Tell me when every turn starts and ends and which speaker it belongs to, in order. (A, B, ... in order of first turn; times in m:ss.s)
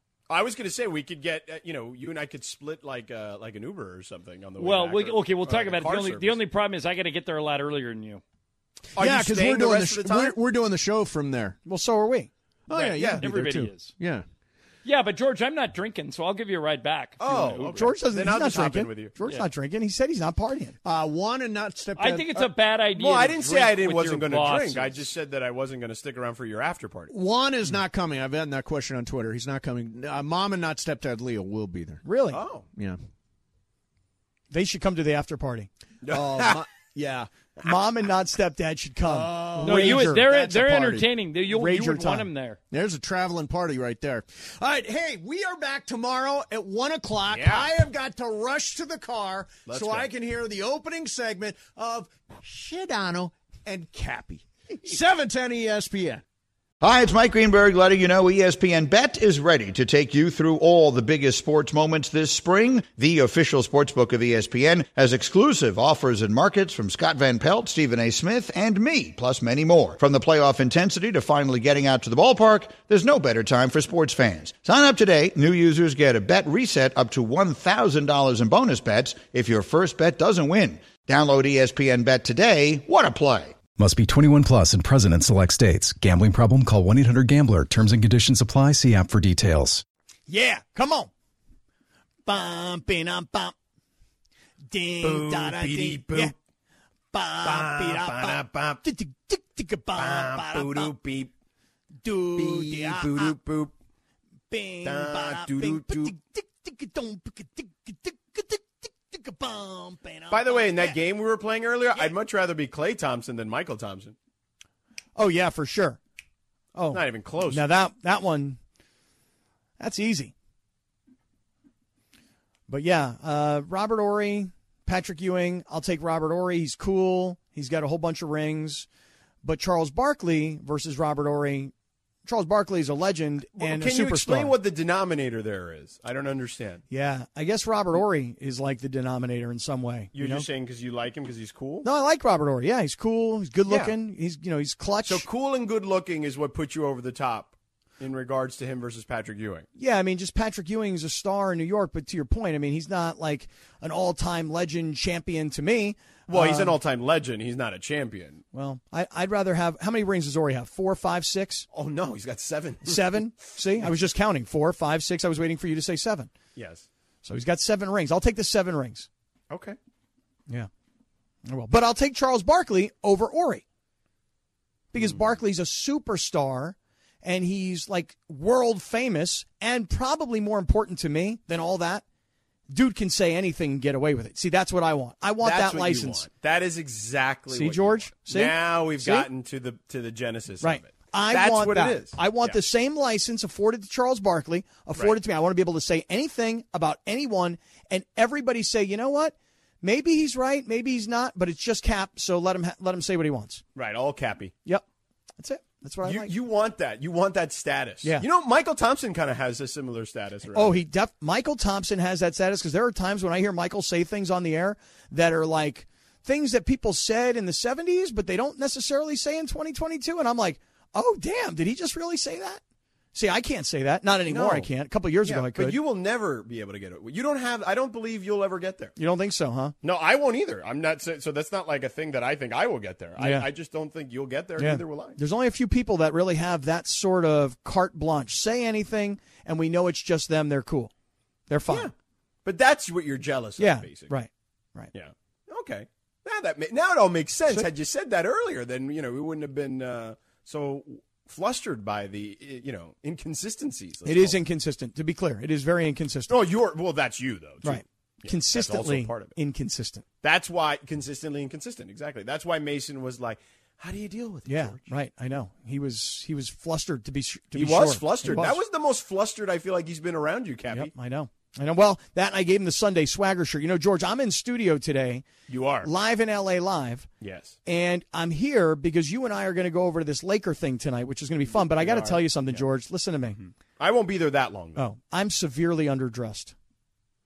0:00.3-0:06.4 A
0:04.6-0:08.2 B
0:09.0-0:10.4 A
0:09.0-0:11.6 C
0:11.6-0:12.3 D
0:12.7-0:14.3 C
0:12.7-0:14.0 B
0:13.0-0:13.2 A
0:13.2-0:13.7 D
0:14.8-0:18.0 B
0:17.2-0:19.1 A
0:17.7-0:20.8 D
0:19.2-0:19.5 B
0:20.8-0:22.5 C
0:22.0-0:25.0 B
0:23.0-0:27.1 A
0:27.1-0:32.0 C
0:32.0-0:32.4 D
0:32.3-0:32.7 A
0:32.7-0:33.0 C
0:34.5-0:35.7 D
0:36.0-0:36.6 A
0:36.1-0:37.3 C
0:37.6-0:40.2 D
0:39.1-0:41.1 C
0:39.6-0:42.6 B
0:41.5-0:42.3 D
0:42.7-0:56.2 C
0:47.3-0:47.7 A
0:49.7-0:50.1 A
0:56.8-1:23.6 E
1:23.8-1:29.8 F
1:30.3-1:31.1 D
1:32.3-1:33.6 D
1:34.7-1:36.3 D
1:35.0-1:36.3 A
1:37.1-1:40.9 D
1:37.4-1:38.8 A
1:40.0-1:41.3 A
1:42.0-1:43.4 D
1:42.4-1:43.7 A
1:44.5-1:51.0 D
1:44.8-1:46.1 A
1:50.3-1:54.2 A
1:55.2-1:56.0 D
1:56.8-1:58.6 D
1:56.9-1:57.7 A
1:59.8-2:00.3 D
2:02.7-2:08.9 D
2:09.4-2:11.7 D
2:12.2-2:14.6 D
2:13.6-2:16.8 A
2:16.9-2:20.5 D
2:20.1-2:21.9 A
2:21.8-2:25.3 D
2:23.7-2:24.0 A
2:25.0-2:29.7 A
2:29.8-2:36.8 D
2:36.3-2:38.4 A
2:38.5-2:41.7 D
2:41.7-2:43.0 A
2:42.8-2:46.3 D
2:46.6-2:46.9 A
2:47.2-2:49.1 D
2:49.5-2:49.8 A
2:51.5-2:53.6 D
2:54.9-3:02.0 D
2:55.0-2:55.2 A
3:02.7-3:06.2 D
3:05.4-3:12.6 A
3:07.5-3:09.3 D
3:10.6-3:23.6 D
3:23.8-3:24.5 A
3:25.4-3:26.3 D
3:26.0-3:30.8 A
3:30.5-3:42.6 D
3:43.1-3:45.8 D
3:44.3-3:44.7 A
3:45.2-3:48.9 A
3:49.0-3:49.8 D
3:49.8-3:55.2 A
3:53.2-3:53.5 D
3:54.6-4:00.9 D
4:01.5-4:01.9 D
4:02.4-4:04.1 A
4:03.6-4:04.9 D
4:04.9-4:14.4 A
4:14.0-4:16.4 D
4:16.3-4:19.3 A
4:17.6-4:20.0 D
4:20.2-4:24.9 A
4:24.5-4:28.6 D
4:27.5-4:30.9 A
4:30.7-4:35.3 D
4:35.5-4:35.9 A
4:35.8-4:37.1 D
4:37.2-4:37.6 A
4:37.6-4:43.4 D
4:41.5-4:42.6 A
4:43.4-4:44.8 A
4:44.8-4:46.5 D